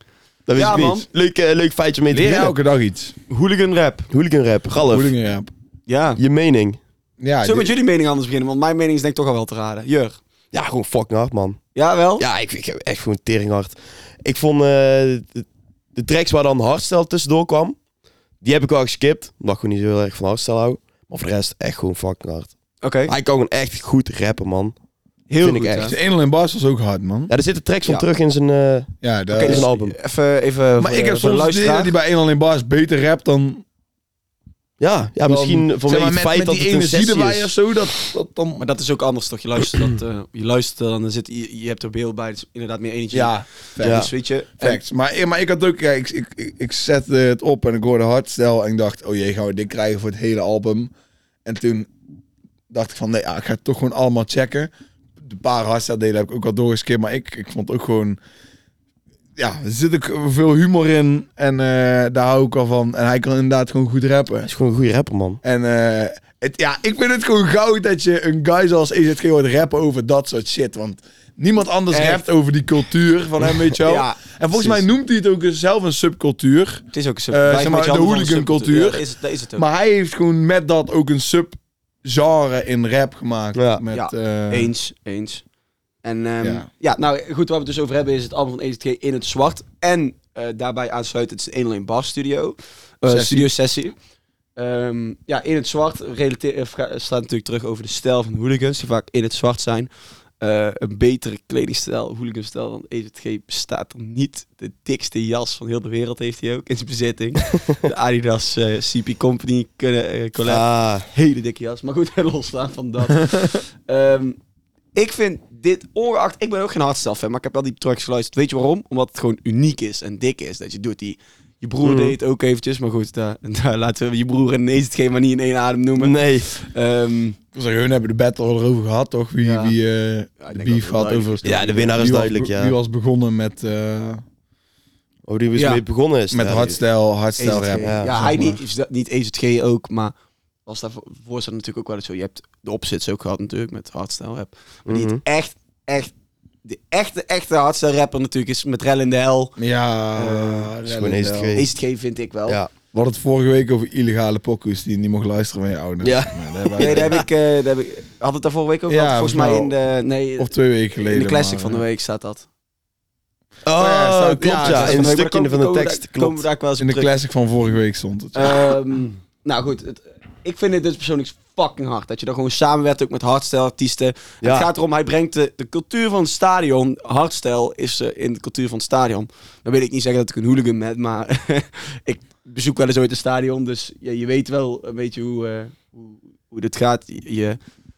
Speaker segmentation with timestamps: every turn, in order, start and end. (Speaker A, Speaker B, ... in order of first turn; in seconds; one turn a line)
Speaker A: 0.5-2.5
Speaker B: 0.5-1.1
Speaker C: 2.1-3.1
Speaker B: 3.3-4.1
Speaker A: 4.1-5.1
Speaker C: 4.9-5.5
Speaker B: 5.9-6.2
Speaker A: 6.2-6.8
Speaker C: 7.2-7.7
Speaker B: 7.4-10.2
Speaker A: 10.5-11.6
Speaker B: 11.7-12.2
Speaker A: 12.2-17.8
Speaker A: 18.4-22.5
Speaker B: 22.8-23.1
Speaker A: 23.1-24.7
Speaker B: 25.3-26.0
Speaker A: 25.4-25.9
Speaker C: 25.8-27.3
Speaker A: 27.3-29.9
Speaker C: 29.0-29.7
Speaker B: 29.3-31.9
Speaker C: 30.8-33.6
Speaker A: 34.8-37.5
Speaker C: 35.2-38.6
Speaker B: 38.6-44.8
Speaker C: 43.1-50.9
Speaker A: 43.8-44.1
Speaker C: 51.4-51.9
Speaker C: 52.7-58.2
Speaker C: 59.4-64.5
Speaker A: 64.4-65.4
Speaker C: 65.4-79.0
Speaker B: 71.9-72.2
Speaker B: 73.8-74.8
Speaker B: 76.9-79.7
Speaker C: 79.5-84.7
Speaker A: 83.5-83.8
Speaker B: 83.9-85.4
Speaker B: 86.0-93.9
Speaker C: 93.0-93.5
Speaker B: 94.5-114.4
Speaker A: 110.5-111.1
Speaker B: 114.9-127.4
Speaker A: 121.8-122.2
Speaker A: 126.0-126.5
Speaker C: 127.5-134.2
Speaker B: 129.4-129.7
Speaker B: 130.4-131.9
Speaker A: 131.4-132.8
Speaker A: 135.2-136.8
Speaker B: 135.5-135.8
Speaker C: 136.3-138.6
Speaker B: 137.4-140.1
Speaker A: 137.8-138.1
Speaker B: 140.7-149.5
Speaker A: 144.8-145.2
Speaker C: 149.6-151.6
Speaker B: 150.1-150.7
Speaker A: 150.8-151.7
Speaker B: 151.5-152.6
Speaker C: 152.9-157.2
Speaker A: 156.0-157.2
Speaker B: 156.8-162.4
Speaker C: 158.9-159.7
Speaker C: 160.4-161.8
Speaker A: 163.6-166.4
Speaker C: 163.7-165.2
Speaker B: 164.5-167.1
Speaker C: 166.8-168.8
Speaker B: 168.3-187.6
Speaker A: 174.4-174.7